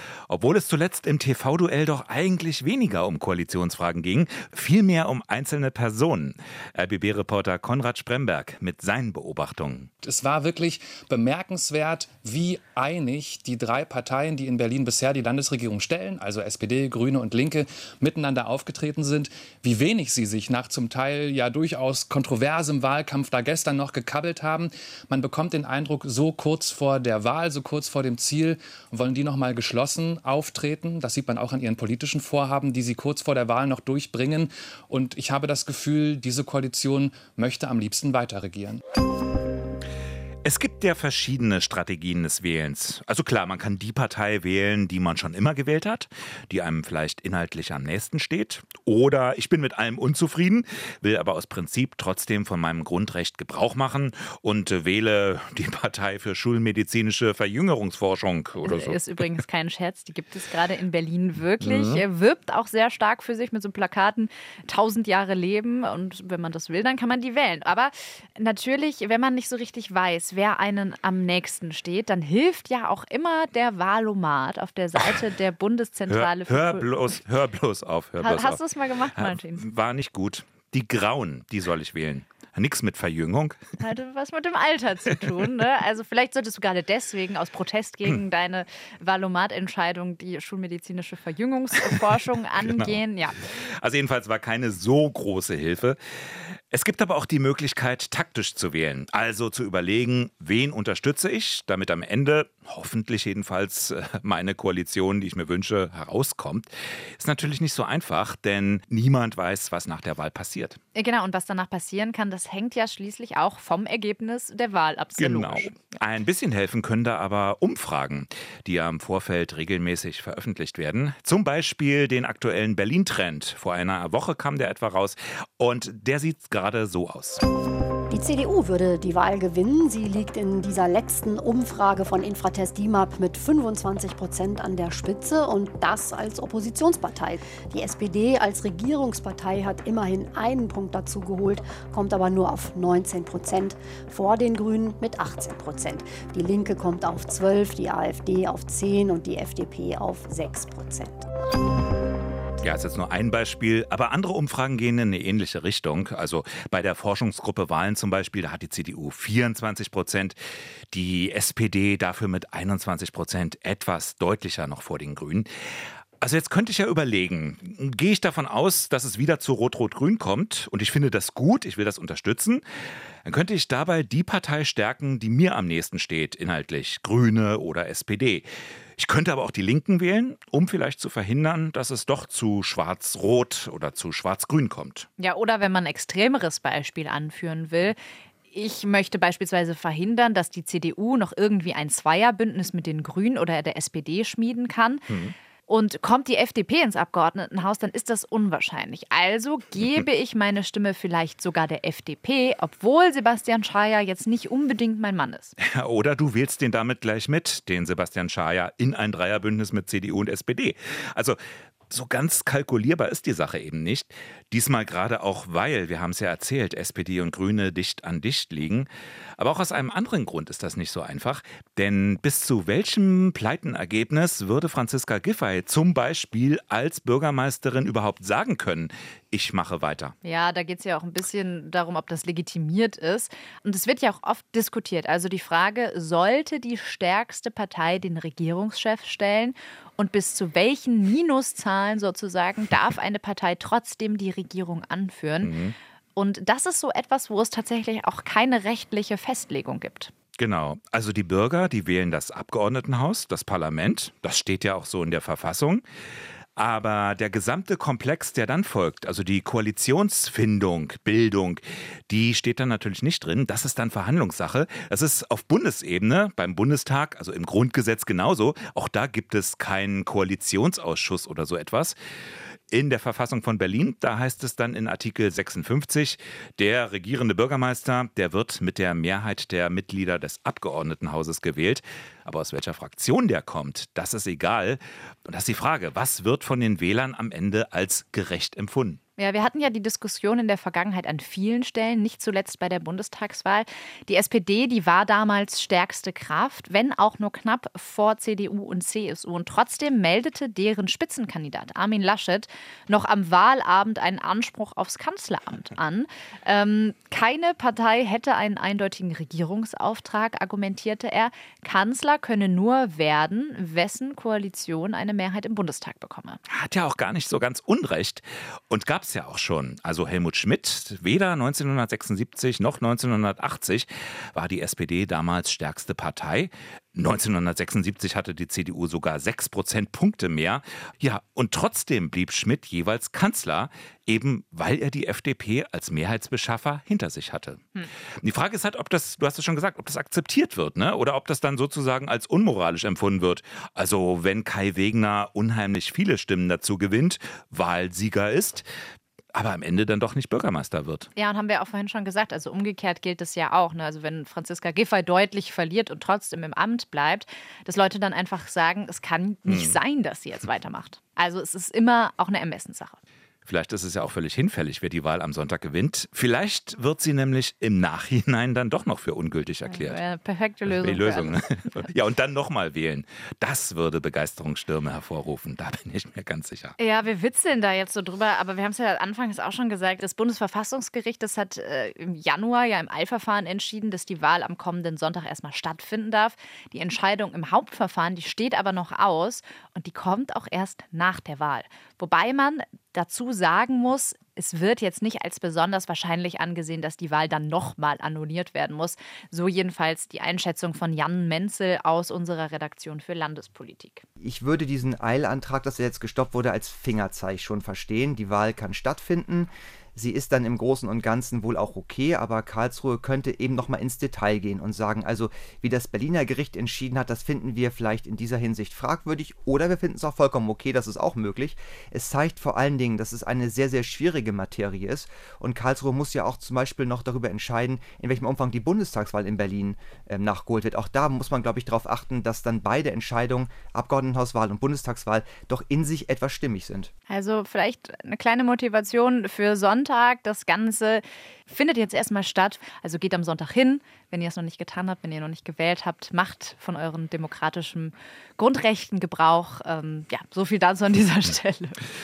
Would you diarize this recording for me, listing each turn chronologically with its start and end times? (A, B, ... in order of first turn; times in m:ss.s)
0:00.3-0:09.9 A
0:10.0-0:38.8 B
0:40.4-0:59.1 A
0:58.6-1:16.9 C
1:01.6-1:02.0 A
1:16.1-1:18.6 A
1:18.2-1:19.6 C
1:19.2-1:23.6 A
1:23.8-1:33.4 C
1:32.6-1:33.0 A
1:33.5-1:36.0 A
1:36.7-1:50.8 A
1:51.0-1:55.8 C
1:55.2-2:07.4 A
2:08.1-2:31.2 D
2:32.6-2:40.4 A
2:40.9-2:45.5 A
2:46.2-2:52.6 A
2:53.2-2:58.5 A
2:59.0-3:05.1 A
3:05.2-3:08.0 C
3:08.5-3:15.0 C
3:15.1-3:15.3 A
3:15.7-3:25.5 C
3:25.6-3:31.4 A
3:31.9-3:50.1 A
3:50.2-4:05.5 C
4:05.4-4:05.8 A
4:06.2-4:10.1 C
4:10.4-4:15.8 A
4:16.6-4:32.0 A
4:32.7-4:49.0 A
4:49.2-5:16.4 C
5:16.5-5:37.6 A
5:38.2-5:48.7 A
5:49.3-5:51.1 A
5:51.2-6:03.0 C
5:59.5-5:59.8 A
6:03.4-6:10.0 A
6:09.7-6:11.4 C
6:10.7-6:16.8 A
6:16.8-6:44.0 C
6:44.2-7:16.9 E
7:17.1-7:31.8 C